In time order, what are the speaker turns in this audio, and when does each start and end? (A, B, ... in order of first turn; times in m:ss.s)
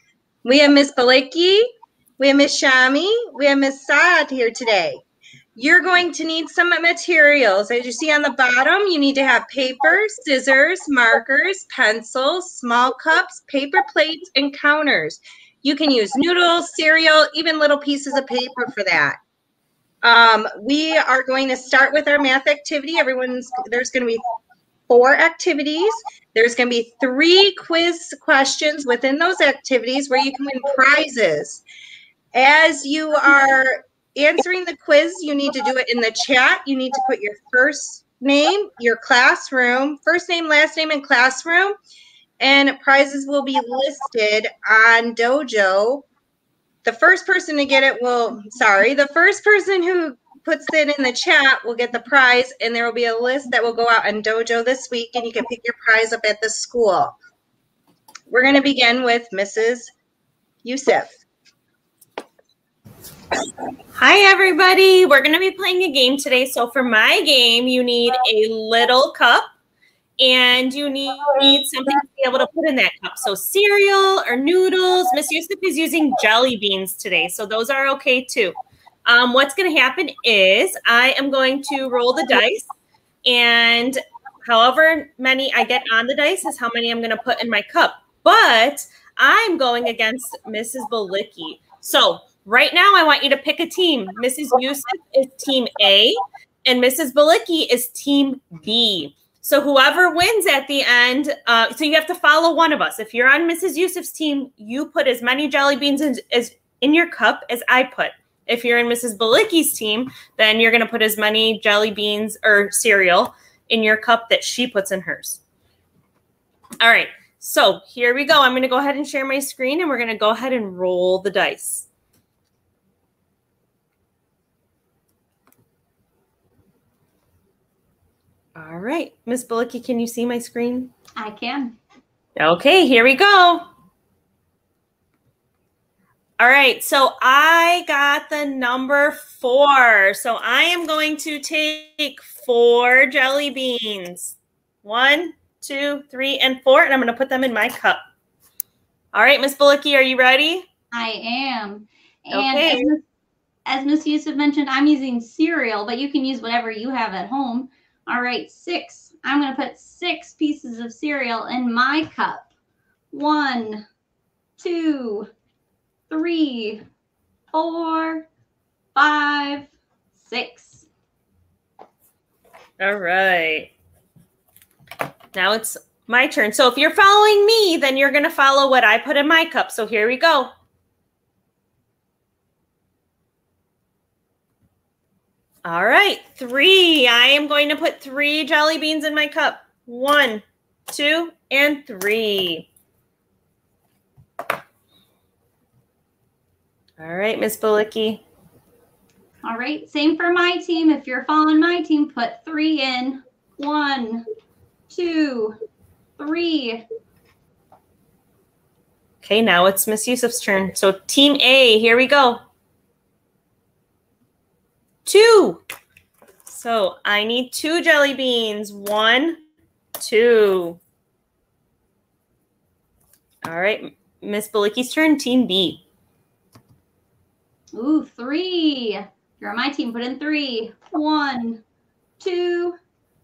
0:00.4-0:01.7 A
0:02.2-0:05.0 A
0:05.6-0:19.2 A
0:20.0-0:24.2 A
0:24.9-0:31.6 A
0:32.3-0:41.8 A
0:42.4-0:46.1 A
0:46.8-0:57.2 A
0:58.3-0:59.9 A
1:00.6-1:01.1 A
1:04.0-1:09.5 B
1:10.2-1:22.7 B
1:23.2-1:55.4 B
1:56.8-2:01.9 B
2:08.6-2:10.9 B
2:11.2-2:11.8 C
2:12.4-2:13.7 B
2:16.4-2:28.0 B
2:29.1-2:30.7 B
2:30.9-2:33.0 C
2:32.3-2:32.9 B
2:33.7-2:42.5 C
2:43.1-2:43.9 C
2:44.6-2:45.3 C
2:46.1-2:46.8 C
2:47.5-2:48.3 C
2:49.0-2:50.9 C
2:52.8-2:53.7 B
2:55.3-3:00.5 B
3:05.6-3:12.7 B
3:17.0-3:18.2 B
3:19.4-3:24.3 C
3:24.9-3:25.6 C
3:26.2-3:26.8 C
3:29.2-3:32.4 B
3:35.1-3:35.6 B
3:36.5-3:39.4 B
3:40.0-3:40.8 B
3:43.4-3:45.8 B
3:47.7-3:51.6 C
3:52.2-3:52.8 C